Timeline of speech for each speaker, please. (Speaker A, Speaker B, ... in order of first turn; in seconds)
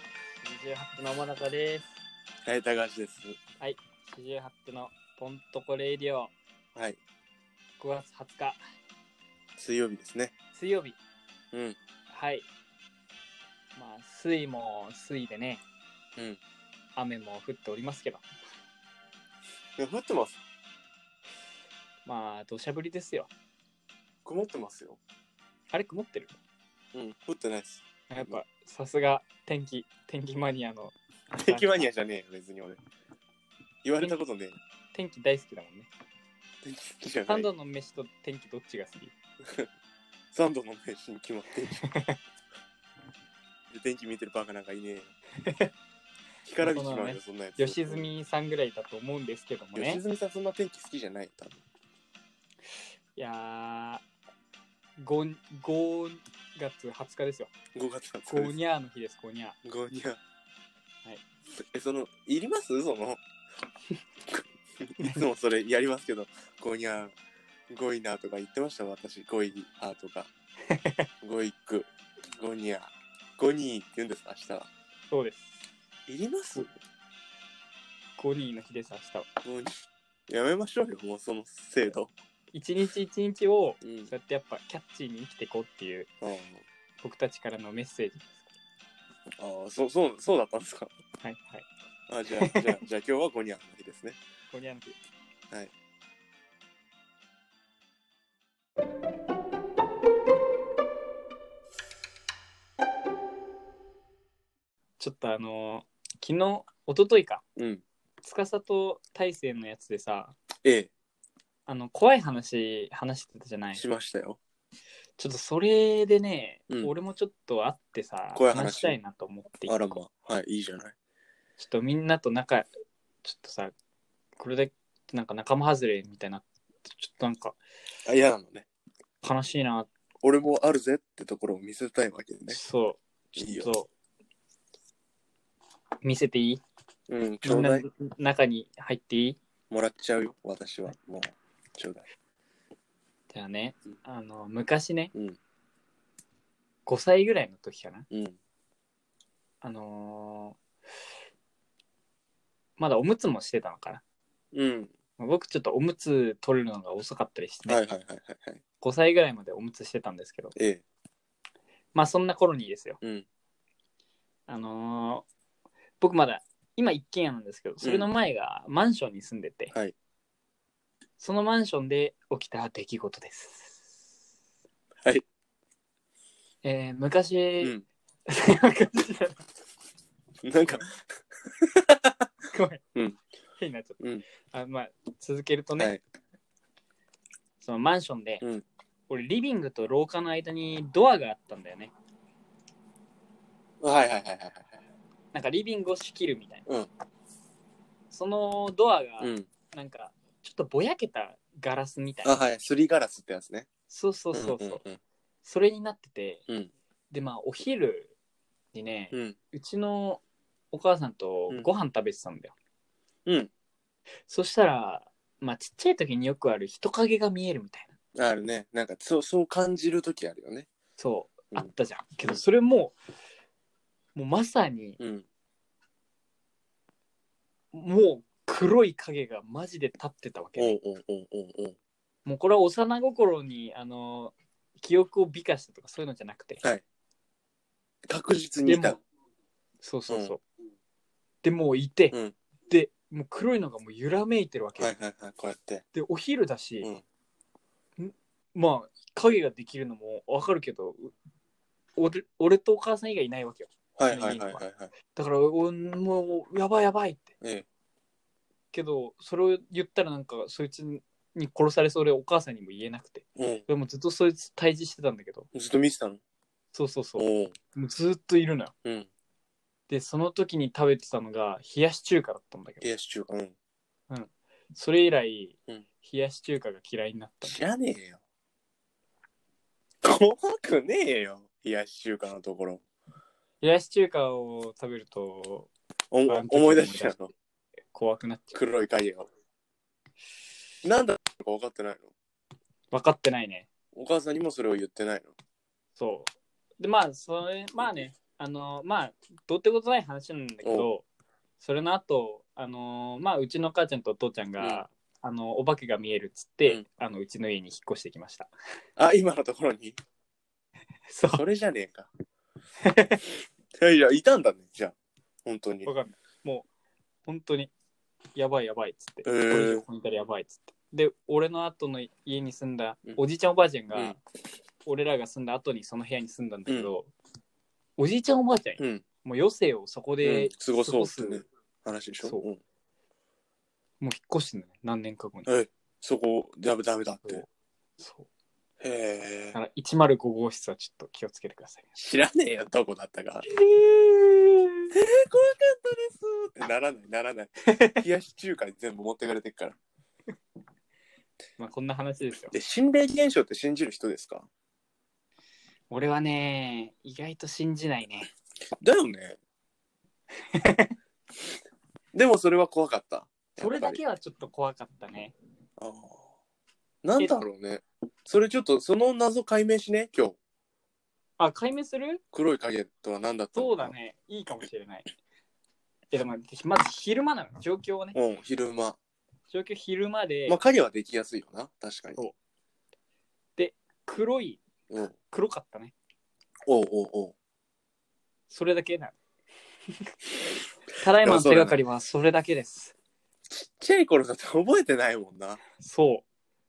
Speaker A: 0.4-1.9, 3.6-6.3, 7.8-8.6, 10.5-11.0, 12.1-12.4, 13.8-15.6, 16.9-18.2, 22.1-23.3, 25.7-26.3, 28.1-31.9, 34.9-35.9, 37.3-39.1, 41.8-42.2, 45.4-45.7, 46.6-50.0, 53.1-54.0, 55.0-57.5, 58.3-59.6, 70.7-71.1, 75.1-75.5, 78.2-79.3, 82.5-86.1, 87.0-88.5, 91.2-91.7, 92.4-92.7, 94.5-95.0, 105.0-107.4, 108.2-110.3, 111.7-113.8, 115.2-119.9, 121.6-122.7, 123.2-123.7, 124.4-127.6, 129.2-129.9, 132.5-133.9, 136.0-136.6, 137.4-139.4, 143.3-145.1, 146.8-148.1, 149.6-150.6, 152.8-154.0, 155.2-157.8, 158.8-160.5, 161.9-163.0, 164.5-165.2, 166.0-169.7, 171.2-173.8, 176.6-177.7, 178.3-179.4, 182.5-182.8, 183.6-184.0, 184.5-185.9, 187.6-188.4, 189.1-191.9, 195.3-196.7, 198.1-202.4, 203.9-204.8, 205.4-206.4, 207.1-208.1, 208.7-212.5, 214.3-217.9, 221.0-222.9, 224.1-225.0, 227.7-230.8, 232.2-236.6, 238.7-239.0, 239.8-240.4, 241.4-242.2, 242.7-244.9, 245.9-246.9, 248.0-251.1, 252.0-254.6, 255.1-257.3, 258.7-265.5, 266.7-268.7, 269.9-272.9, 274.1-277.6, 283.6-285.7, 286.3-287.1, 287.9-288.6, 292.9-293.7, 296.0-301.0, 301.6-308.5, 311.1-311.4, 312.8-313.2, 315.8-316.7, 317.2-317.7, 318.4-324.2, 324.9-327.1, 328.0-331.4, 334.0-335.5, 338.0-338.3, 339.5-341.9, 343.5-344.9, 347.7-348.0, 351.6-352.6, 355.9-358.3, 360.5-360.9, 363.6-365.3, 371.4-372.2, 373.5-375.1, 376.1-378.2, 379.5-380.6, 383.6-384.6, 385.3-385.9, 388.5-389.1, 391.0-392.9, 395.8-396.2
Speaker B: 2.5-3.4, 9.6-10.3, 11.5-11.8, 19.8-20.4, 24.2-25.0, 26.9-28.4, 31.4-32.8, 33.8-34.5, 36.6-37.5, 40.3-41.8, 43.7-45.1, 46.4-48.1, 49.7-51.6, 57.7-58.5, 59.6-60.2, 61.6-63.2, 64.3-67.1, 67.7-70.3, 71.2-74.7, 76.1-76.7, 79.4-82.1, 83.8-84.1, 86.2-86.6, 89.4-90.9, 92.1-94.2, 107.5-107.8, 110.6-110.9, 113.7-114.4, 118.3-119.0, 119.7-120.9, 128.0-128.7, 130.2-132.6, 133.4-133.7, 137.1-137.9, 139.7-142.0, 148.1-148.4, 154.5-154.9, 157.7-158.6, 160.5-160.8, 167.8-168.1, 180.4-182.2, 193.8-194.8, 199.2-199.5, 202.2-203.7, 204.3-205.0, 218.2-220.7, 225.0-225.2, 230.6-231.8, 238.1-239.0, 240.1-240.3, 244.8-245.8, 253.9-254.9, 257.4-257.6, 263.4-263.6, 265.5-266.2, 267.2-267.5, 268.8-269.1, 272.8-273.5, 277.4-278.2, 280.0-282.8, 286.1-287.3, 288.5-289.3, 290.8-292.1, 293.9-295.3, 300.6-300.9, 309.0-310.0, 311.3-312.1, 313.8-315.9, 319.2-319.8, 323.9-324.2, 326.7-326.9, 328.8-329.0, 330.2-332.6, 335.4-337.4, 338.8-339.6, 341.9-343.4, 344.9-349.8, 352.5-354.5, 358.8-359.4, 362.1-364.0, 365.8-366.3, 367.0-370.4, 372.3-373.9, 378.1-379.0, 380.5-382.2, 386.6-387.3, 391.2-391.8, 393.5-395.6